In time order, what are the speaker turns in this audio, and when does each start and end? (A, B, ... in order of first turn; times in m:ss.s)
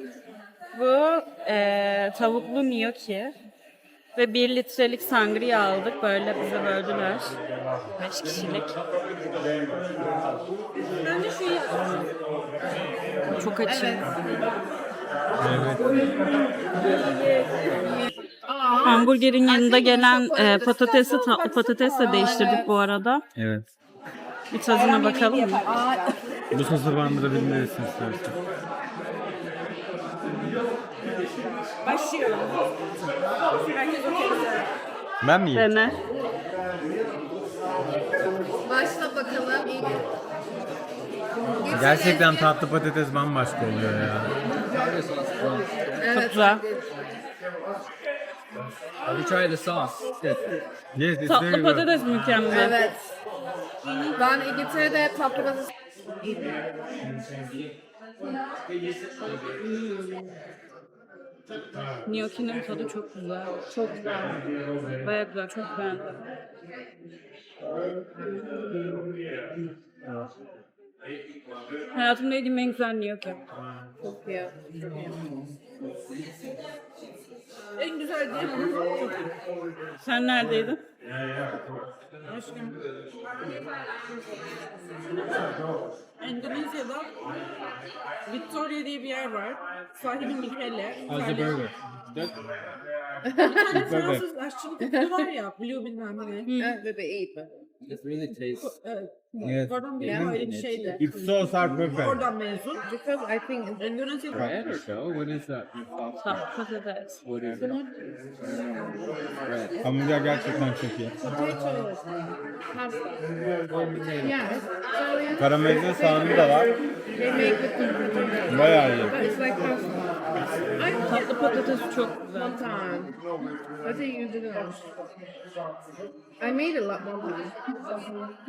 0:00.7-0:03.3 A
0:04.1-0:07.3 A
0:08.0-0:08.7 A
0:11.0-0:12.1 B
0:13.3-0:14.1 A
0:13.6-0:14.3 C
0:15.4-0:16.1 D
0:15.6-0:16.0 B
0:17.0-0:17.6 B
0:17.8-0:21.2 C
0:18.8-0:23.2 A
0:20.9-0:22.7 B
0:22.0-0:22.7 C
0:23.3-0:23.6 D
0:24.5-0:25.7 A
0:24.7-0:26.2 B
0:25.6-0:26.2 C
0:26.5-0:28.4 D
0:31.8-0:32.7 B
0:33.7-0:34.7 B
0:35.2-0:35.9 D
0:35.5-0:36.0 A
0:38.6-0:40.1 C
0:41.4-0:42.6 C
0:41.7-0:44.3 D
0:44.7-0:46.1 E
0:46.0-0:46.6 C
0:46.2-0:46.6 A
0:49.1-0:50.5 E
0:50.9-0:51.9 D
0:51.2-0:52.8 A
0:52.4-0:53.1 C
0:54.1-0:55.7 C
0:56.2-0:56.6 C
0:59.6-1:00.3 A
1:02.0-1:03.6 A
1:03.7-1:04.4 C
1:05.0-1:06.2 A
1:07.9-1:09.0 C
1:11.9-1:13.4 A
1:14.0-1:15.2 C
1:17.8-1:19.3 B
1:20.0-1:20.8 A
1:22.2-1:22.8 B
1:26.2-1:27.1 B
1:28.2-1:31.7 B
1:31.1-1:31.7 E
1:33.2-1:34.0 C
1:33.4-1:36.5 B
1:33.7-1:34.2 D
1:34.8-1:35.3 C
1:36.4-1:36.8 A
1:36.6-1:37.5 C
1:37.8-1:38.7 E
1:38.3-1:42.8 B
1:39.4-1:42.2 D
1:40.0-1:40.8 E
1:40.0-1:41.0 C
1:42.8-1:44.0 C
1:43.8-1:44.6 B
1:44.3-1:46.4 E
1:46.2-1:47.2 A
1:47.2-1:47.7 E
1:47.5-1:47.9 B
1:49.4-1:49.8 E
1:49.8-1:51.1 D
1:51.2-1:52.0 C
1:52.7-1:53.1 C
1:53.8-1:54.4 E
1:54.1-2:00.0 C
1:55.4-1:56.7 D
1:57.2-1:59.5 B
1:58.5-1:59.2 D
2:00.8-2:03.1 C
2:01.0-2:02.5 A
2:03.8-2:04.8 C
2:06.4-2:08.3 C